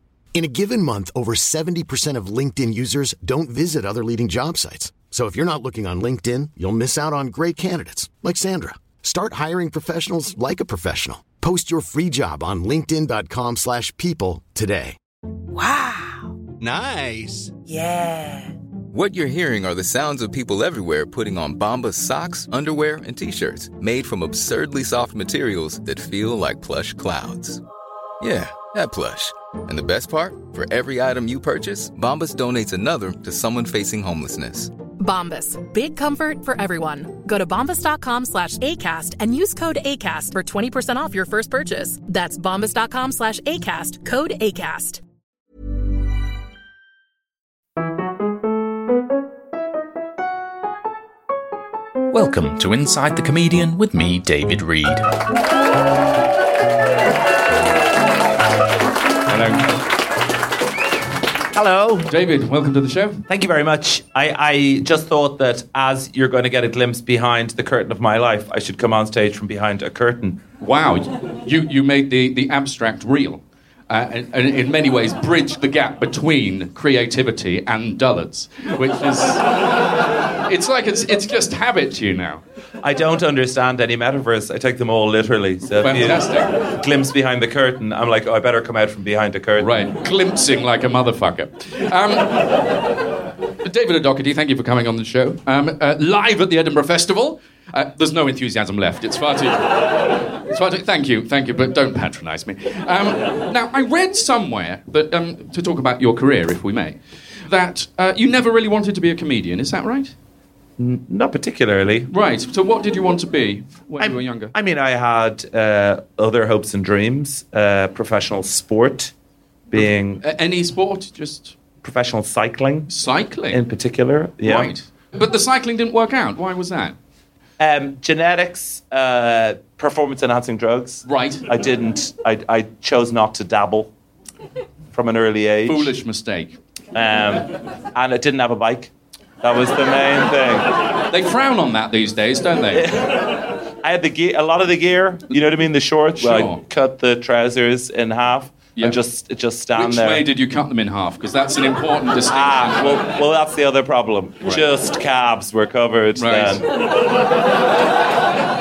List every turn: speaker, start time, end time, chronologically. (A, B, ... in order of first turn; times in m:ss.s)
0:00.3-0:15.0 A
0:15.5-0:16.4 B
0:17.4-0:18.5 B
0:18.9-0:27.6 C
0:28.2-0:34.7 C
0:35.0-0:45.0 D
0:52.1-0:55.1 E
0:59.3-0:59.7 F
1:01.5-1:02.1 G
1:02.1-1:03.2 F
1:03.3-1:10.4 G
1:10.6-1:19.7 F
1:20.4-1:22.4 F
1:22.8-1:29.7 G
1:25.8-1:26.6 F
1:29.6-1:32.7 F
1:33.6-1:50.1 F
1:50.8-1:52.1 G
1:52.1-1:54.5 F
1:54.0-1:59.1 G
1:59.7-2:00.2 G
1:59.8-2:01.6 F
2:01.8-2:02.9 G
2:02.9-2:03.6 F
2:03.5-2:04.7 G
2:04.4-2:07.0 F
2:07.6-2:13.9 G
2:11.0-2:11.4 F
2:14.9-2:15.9 G
2:15.7-2:16.6 F
2:16.9-2:18.9 G
2:19.4-2:20.8 G
2:21.1-2:23.0 F
2:22.7-2:30.2 G
2:26.2-2:26.6 F
2:29.8-2:33.0 F
2:32.3-2:36.7 G
2:36.2-2:36.6 F